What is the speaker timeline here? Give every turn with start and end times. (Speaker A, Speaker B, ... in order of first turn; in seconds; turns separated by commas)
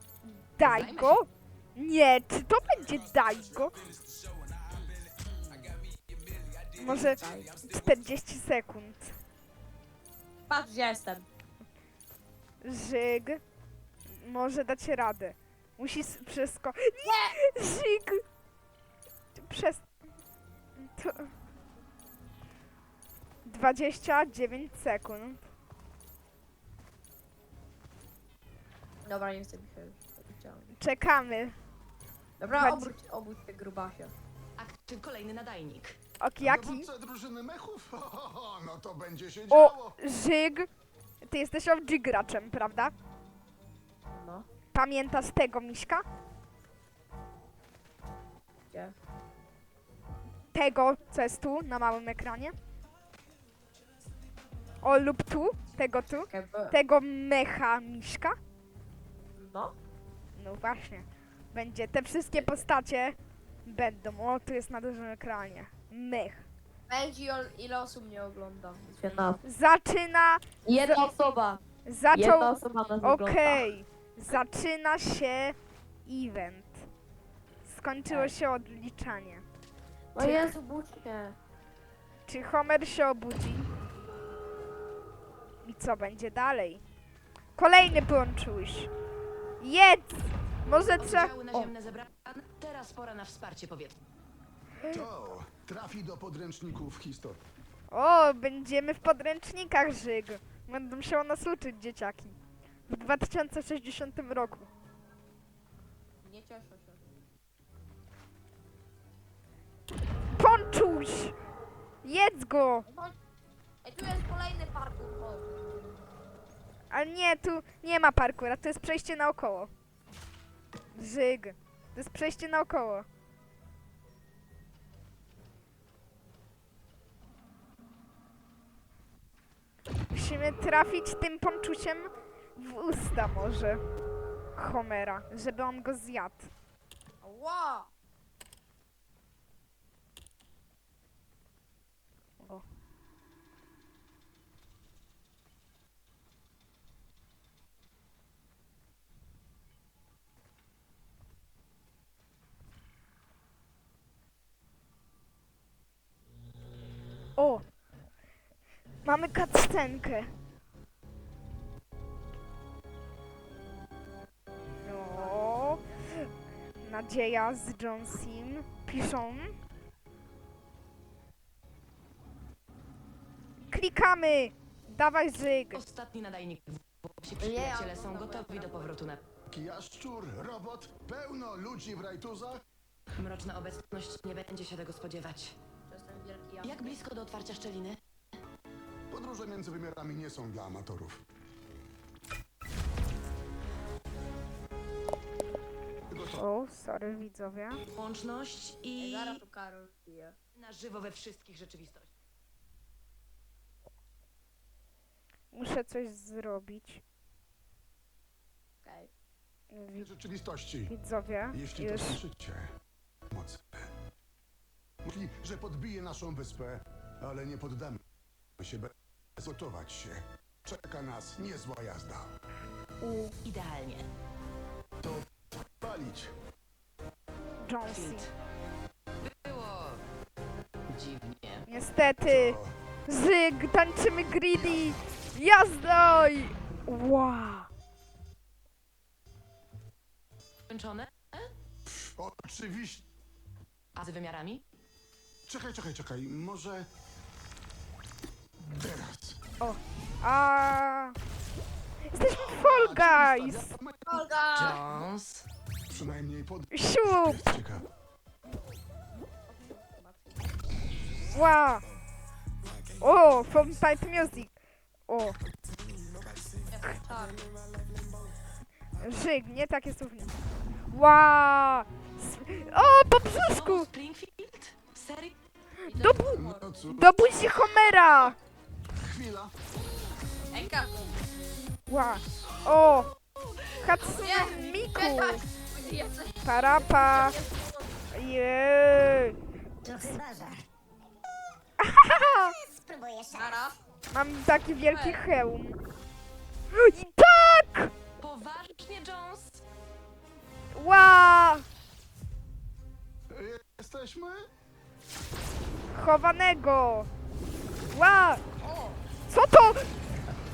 Speaker A: 0.2-3.8, Speaker B: 0.6-1.2, Speaker C: 3.7-6.8, Speaker A: 6.8-9.2, Speaker D: 6.8-7.6, Speaker D: 10.5-11.3, Speaker A: 12.6-13.4, Speaker A: 14.1-18.2, Speaker D: 17.0-17.4, Speaker A: 19.4-19.9, Speaker A: 20.8-21.3, Speaker A: 23.5-25.5, Speaker D: 29.0-30.7, Speaker A: 30.7-31.6, Speaker D: 32.4-34.1, Speaker A: 32.5-32.9, Speaker B: 34.6-36.0, Speaker A: 36.2-36.9, Speaker C: 36.4-40.0, Speaker A: 39.5-40.7, Speaker A: 41.2-42.9, Speaker D: 44.1-44.5, Speaker A: 44.7-46.0, Speaker A: 50.5-52.5, Speaker A: 54.8-58.4, Speaker D: 56.3-56.8, Speaker D: 59.4-59.7, Speaker A: 60.4-66.5, Speaker D: 66.9-69.4, Speaker A: 69.4-71.1, Speaker D: 70.7-71.6, Speaker A: 71.9-76.9, Speaker D: 72.1-73.7, Speaker A: 77.6-79.4, Speaker D: 80.1-81.4, Speaker A: 80.2-80.5, Speaker A: 82.3-83.7, Speaker A: 85.6-86.8, Speaker A: 87.6-88.9, Speaker A: 89.6-91.7, Speaker B: 91.0-94.0, Speaker C: 94.9-97.4, Speaker A: 97.9-102.4, Speaker A: 102.9-104.7, Speaker D: 106.2-107.0, Speaker A: 110.3-111.4, Speaker A: 112.0-112.9, Speaker D: 112.9-113.2, Speaker D: 113.8-115.9, Speaker A: 116.9-119.7, Speaker A: 121.0-123.1, Speaker A: 130.1-133.8, Speaker A: 134.6-136.5, Speaker D: 137.2-137.9, Speaker A: 157.4-157.6, Speaker A: 159.0-160.3, Speaker A: 164.8-166.3, Speaker D: 165.2-165.5, Speaker A: 166.8-169.6, Speaker A: 173.7-175.8, Speaker B: 175.7-179.2, Speaker D: 177.4-179.1, Speaker C: 179.5-182.6, Speaker B: 183.2-185.6, Speaker D: 185.9-187.0, Speaker B: 186.6-188.0, Speaker C: 189.1-191.2, Speaker C: 196.1-196.4, Speaker A: 196.3-197.8, Speaker B: 197.9-199.4, Speaker D: 199.0-200.4, Speaker B: 200.6-202.1, Speaker A: 205.5-207.0, Speaker D: 208.8-209.1, Speaker A: 209.7-210.1, Speaker C: 209.9-210.9, Speaker A: 210.9-212.2, Speaker C: 211.5-212.7, Speaker C: 213.3-213.9, Speaker C: 215.0-218.0, Speaker C: 218.6-222.3, Speaker A: 223.0-223.3, Speaker B: 223.4-224.1, Speaker C: 225.0-226.3, Speaker A: 227.6-228.3, Speaker B: 227.9-228.3, Speaker B: 229.2-230.0, Speaker B: 230.9-231.7, Speaker A: 231.7-237.7, Speaker C: 232.2-232.8, Speaker B: 240.7-241.5, Speaker C: 241.9-243.1, Speaker B: 244.0-244.6, Speaker C: 245.5-246.9, Speaker C: 248.6-249.4, Speaker A: 249.6-251.2, Speaker A: 252.1-253.7, Speaker C: 252.2-254.3, Speaker D: 254.1-254.8, Speaker B: 254.6-255.5, Speaker C: 255.9-257.9, Speaker A: 256.7-257.4, Speaker D: 259.5-260.7, Speaker A: 261.3-261.9, Speaker E: 262.7-263.0, Speaker A: 263.0-264.6, Speaker A: 265.1-265.4, Speaker E: 265.6-268.2, Speaker D: 266.7-267.4, Speaker A: 269.0-270.3, Speaker A: 270.9-273.9, Speaker B: 273.4-275.4, Speaker A: 275.9-276.4, Speaker D: 275.9-276.9, Speaker C: 276.3-277.4, Speaker A: 276.9-278.4, Speaker C: 279.0-279.5, Speaker D: 280.5-281.1, Speaker A: 281.9-283.1, Speaker A: 283.8-285.4, Speaker D: 284.0-287.9, Speaker A: 286.4-287.4, Speaker A: 288.1-289.4, Speaker E: 289.8-290.7, Speaker A: 289.9-290.2, Speaker A: 291.8-292.6, Speaker E: 292.1-293.7, Speaker D: 293.3-293.8, Speaker A: 294.1-295.8, Speaker D: 294.9-295.2, Speaker A: 296.7-297.9, Speaker B: 298.2-299.6, Speaker A: 300.7-301.6, Speaker C: 303.3-304.5, Speaker A: 305.9-307.1, Speaker A: 307.9-308.4, Speaker D: 308.6-309.0, Speaker A: 309.3-309.9